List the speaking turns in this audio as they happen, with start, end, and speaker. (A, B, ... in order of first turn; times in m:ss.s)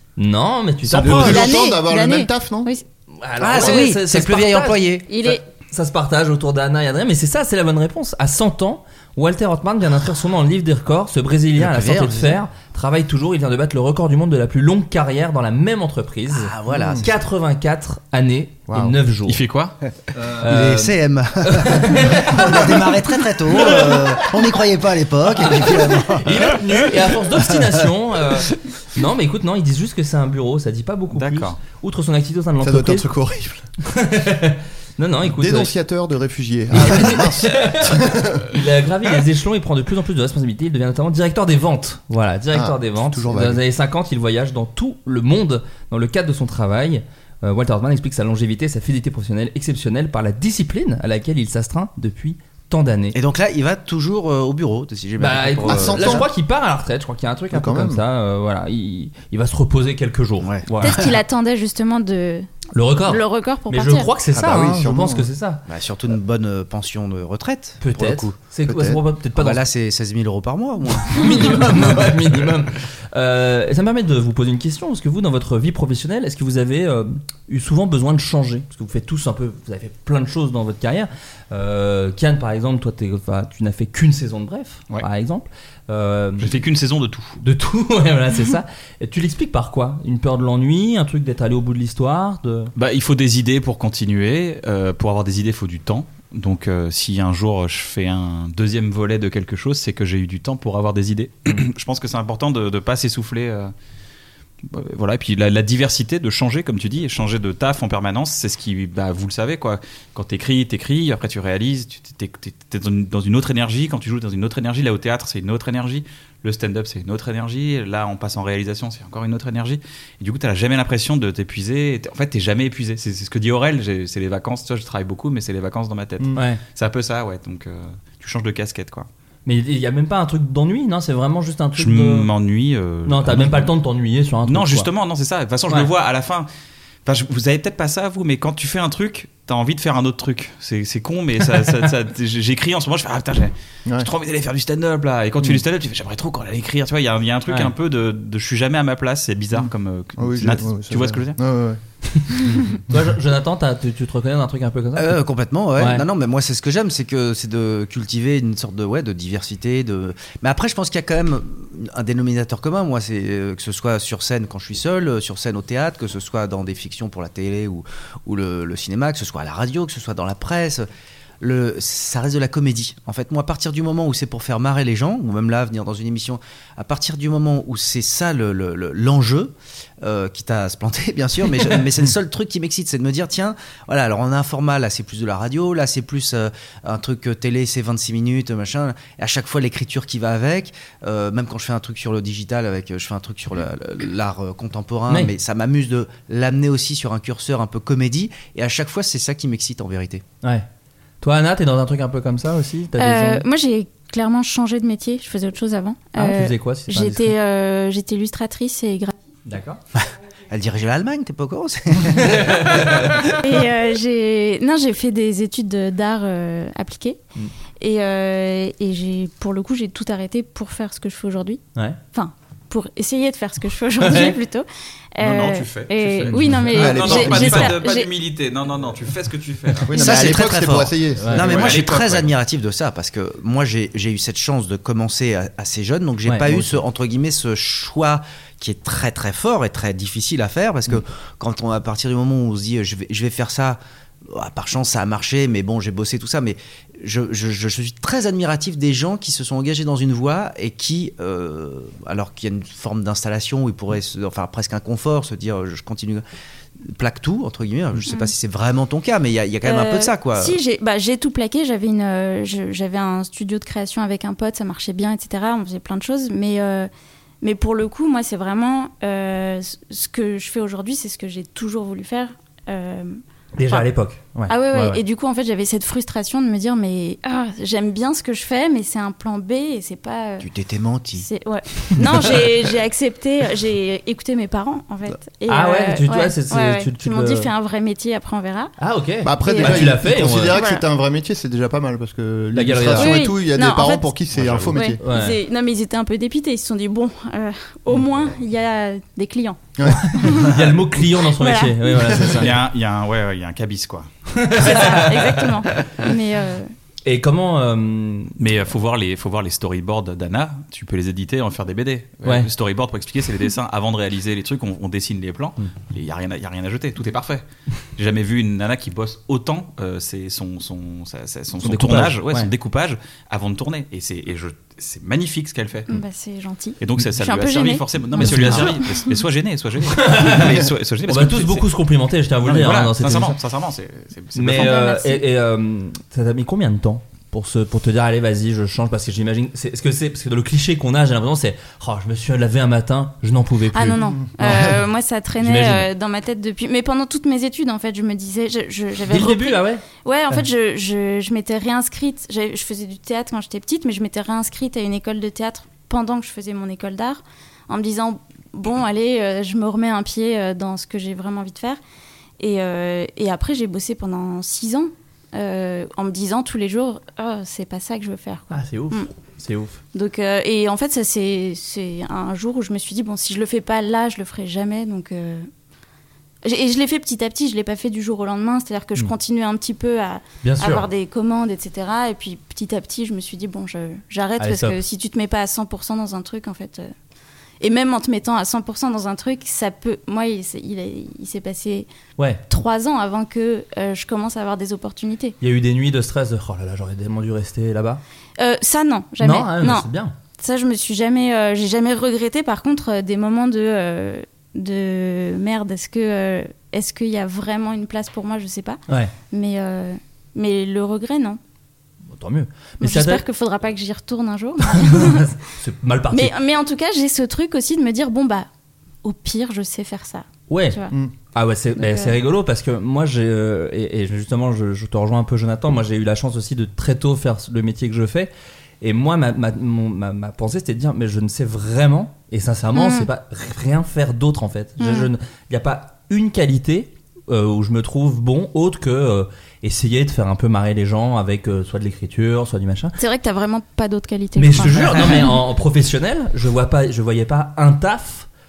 0:00.2-0:01.5 A
0:00.8-0:02.7 B
0:01.1-0:02.8 C
0:03.2-0:19.4 A
0:03.4-0:05.1 D
0:05.1-0:05.4 C
0:11.6-0:12.4 D
0:16.3-0:17.1 D
0:16.7-0:17.1 B
0:18.7-0:19.0 B
0:19.3-0:19.8 E
0:20.2-0:22.9 A
0:20.4-0:26.9 D
0:23.5-0:24.3 A
0:25.5-0:33.1 A
0:31.1-0:31.6 E
0:32.6-0:33.6 B
0:33.8-0:35.7 A
0:35.2-0:38.4 B
0:36.7-0:53.2 A
0:42.5-0:43.6 B
0:53.1-0:56.3 D
0:55.2-1:00.5 A
0:55.6-0:56.3 B
0:57.5-0:58.0 B
1:00.4-1:01.2 D
1:00.7-1:01.0 E
1:00.8-1:02.5 C
1:02.8-1:05.6 A
1:03.1-1:04.1 C
1:04.4-1:04.9 D
1:04.4-1:05.3 B
1:05.7-1:08.4 D
1:07.8-1:09.6 A
1:08.6-1:09.0 B
1:09.4-1:12.2 D
1:11.1-1:26.6 A
1:26.4-1:27.4 E
1:27.4-1:32.7 A
1:32.8-1:43.7 E
1:44.7-2:09.1 E
2:06.4-2:06.6 A
2:09.5-2:12.3 A
2:11.8-2:13.7 E
2:13.1-2:14.9 A
2:14.5-2:16.5 E
2:17.1-2:31.4 E
2:27.5-2:27.7 A
2:30.2-2:31.8 B
2:32.9-2:35.2 A
2:35.0-2:50.9 D
2:35.8-2:36.0 A
2:51.4-3:20.2 D
3:21.2-3:23.4 A
3:23.0-3:29.1 C
3:26.2-3:27.3 A
3:29.5-3:29.8 A
3:30.0-3:33.4 D
3:32.2-3:33.1 A
3:33.4-3:37.2 C
3:37.8-3:48.1 C
3:44.0-3:44.4 A
3:45.2-3:49.9 E
3:46.7-3:47.7 B
3:47.2-3:47.7 A
3:49.9-3:51.5 B
3:50.0-4:16.2 D
3:51.2-3:51.5 A
3:51.4-3:52.3 E
3:56.3-3:56.8 A
4:16.9-4:20.6 D
4:18.1-4:18.3 C
4:19.6-4:26.9 C
4:27.4-4:33.2 C
4:33.6-4:35.0 A
4:34.5-4:40.5 C
4:40.4-4:41.3 D
4:41.2-4:48.7 C
4:45.5-4:47.5 A
4:48.8-4:50.6 A
4:49.2-4:55.0 B
4:49.4-4:50.0 C
4:50.5-4:50.8 C
4:52.5-4:53.2 A
4:53.0-4:54.1 C
4:54.3-4:54.7 E
4:54.7-5:00.6 C
4:55.0-4:55.4 A
4:59.8-5:00.1 B
4:59.9-5:02.5 A
5:01.3-5:02.4 C
5:02.4-5:04.1 E
5:04.4-5:05.4 A
5:04.6-5:06.7 C
5:07.1-5:08.3 A
5:08.4-5:17.4 E
5:18.0-5:26.0 E
5:21.6-5:22.5 A
5:25.9-5:29.2 C
5:26.8-5:31.7 E
5:28.2-5:28.8 A
5:29.9-5:30.6 A
5:31.1-5:33.4 A
5:32.4-5:34.7 E
5:34.4-5:44.6 A
5:34.5-5:35.2 C
5:43.7-6:01.8 C
5:45.4-5:45.9 A
5:49.1-5:50.4 A
6:02.4-6:09.1 C
6:08.5-6:09.8 A
6:09.9-6:15.5 C
6:16.4-6:26.9 C
6:20.4-6:20.9 A
6:24.4-6:24.8 A
6:27.6-6:31.9 C
6:32.2-6:32.4 A
6:32.5-6:35.4 C
6:35.4-6:38.0 A
6:38.4-6:51.4 C
6:39.2-6:40.1 A
6:52.1-6:53.2 A
6:52.8-6:55.3 C
6:54.7-6:56.4 A
6:56.1-6:58.5 C
6:59.0-7:01.0 C
7:00.5-7:00.8 A
7:01.3-7:23.0 A
7:01.8-7:02.2 C
7:12.7-7:13.1 C
7:14.8-7:15.1 C
7:23.0-7:25.4 C
7:24.4-7:28.3 A